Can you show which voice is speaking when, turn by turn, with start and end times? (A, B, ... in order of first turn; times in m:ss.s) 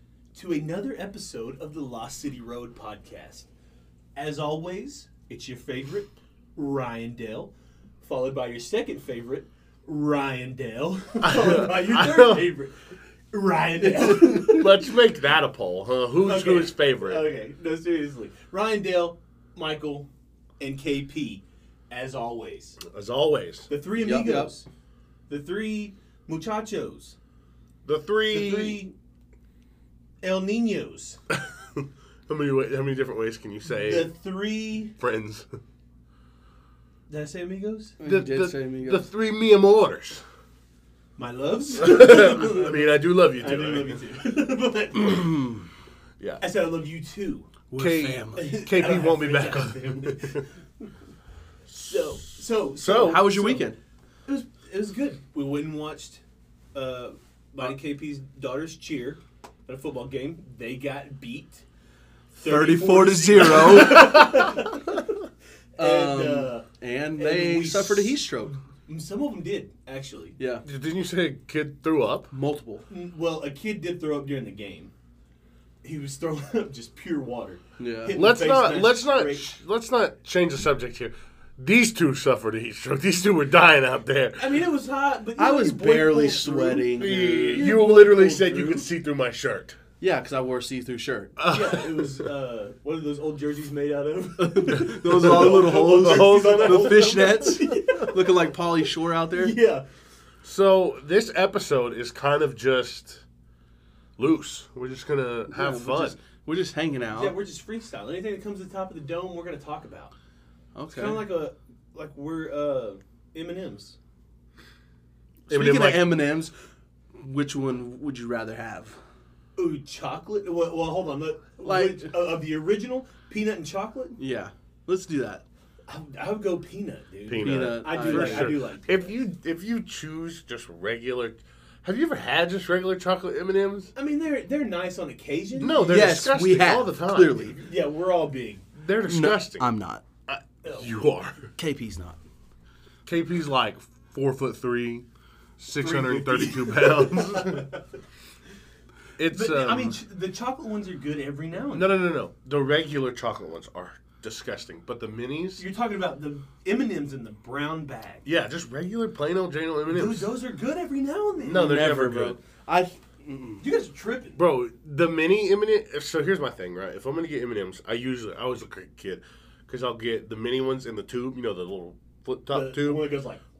0:00.3-0:03.5 A
0:04.1-0:14.7 A
0:11.2-0:12.5 B
0:14.0-0:17.3 B
0:16.2-0:22.8 A
0:22.8-0:23.7 B
0:23.7-0:24.6 A
0:24.0-0:24.5 C
0:25.3-0:27.2 A
0:27.8-0:28.8 B
0:28.3-0:28.9 A
0:30.2-0:31.2 A
0:31.3-0:34.1 B
0:33.9-0:34.9 A
0:35.0-0:35.4 B
0:37.1-0:38.0 A
0:38.0-0:39.1 C
0:38.0-0:40.2 B
0:41.2-0:45.5 A
0:41.8-0:44.0 B
0:45.3-0:45.6 C
0:46.4-0:47.5 A
0:47.7-0:48.5 C
0:47.8-0:50.4 B
0:48.3-0:50.9 A
0:51.7-0:53.7 A
0:52.8-0:53.6 B
0:53.0-0:53.8 C
0:54.2-0:56.2 A
0:56.7-1:01.6 A
1:02.3-1:05.2 A
1:02.4-1:04.4 C
1:05.8-1:06.7 A
1:05.8-1:08.6 C
1:07.2-1:10.4 A
1:10.4-1:10.6 C
1:10.6-1:12.3 B
1:12.3-1:12.8 C
1:12.9-1:14.9 A
1:15.8-1:19.5 A
1:17.8-1:18.1 C
1:18.1-1:24.5 B
1:24.4-1:28.9 A
1:25.4-1:27.7 C
1:26.9-1:29.8 B
1:30.0-1:31.4 C
1:31.4-1:32.2 B
1:31.4-1:38.4 A
1:34.4-1:39.6 C
1:35.1-1:37.5 B
1:39.3-1:39.8 A
1:40.4-1:43.2 B
1:44.2-1:46.2 B
1:45.5-1:47.4 C
1:47.1-1:50.1 A
1:50.7-1:51.3 C
1:50.9-1:54.0 A
1:55.5-1:56.5 C
1:55.5-1:56.2 B
1:57.2-1:59.0 C
1:59.6-2:04.2 A
2:01.6-2:02.1 C
2:04.2-2:05.4 C
2:05.9-2:09.2 A
2:07.3-2:13.9 B
2:07.4-2:08.6 C
2:13.9-2:15.9 A
2:15.6-2:17.5 B
2:15.8-2:17.6 C
2:17.5-2:18.7 A
2:18.8-2:19.7 B
2:19.0-2:20.0 C
2:20.3-2:21.5 B
2:20.6-2:21.0 A
2:21.6-2:22.2 C
2:23.0-2:25.0 B
2:25.6-2:27.7 B
2:25.8-2:27.8 A
2:29.2-2:30.0 B
2:29.3-2:32.0 A
2:31.7-2:35.6 B
2:35.6-2:38.2 A
2:38.2-2:40.3 B
2:39.9-2:41.8 A
2:41.4-2:42.4 B
2:41.5-2:43.6 C
2:43.6-2:44.4 A
2:44.4-2:53.0 B
2:52.5-2:53.4 A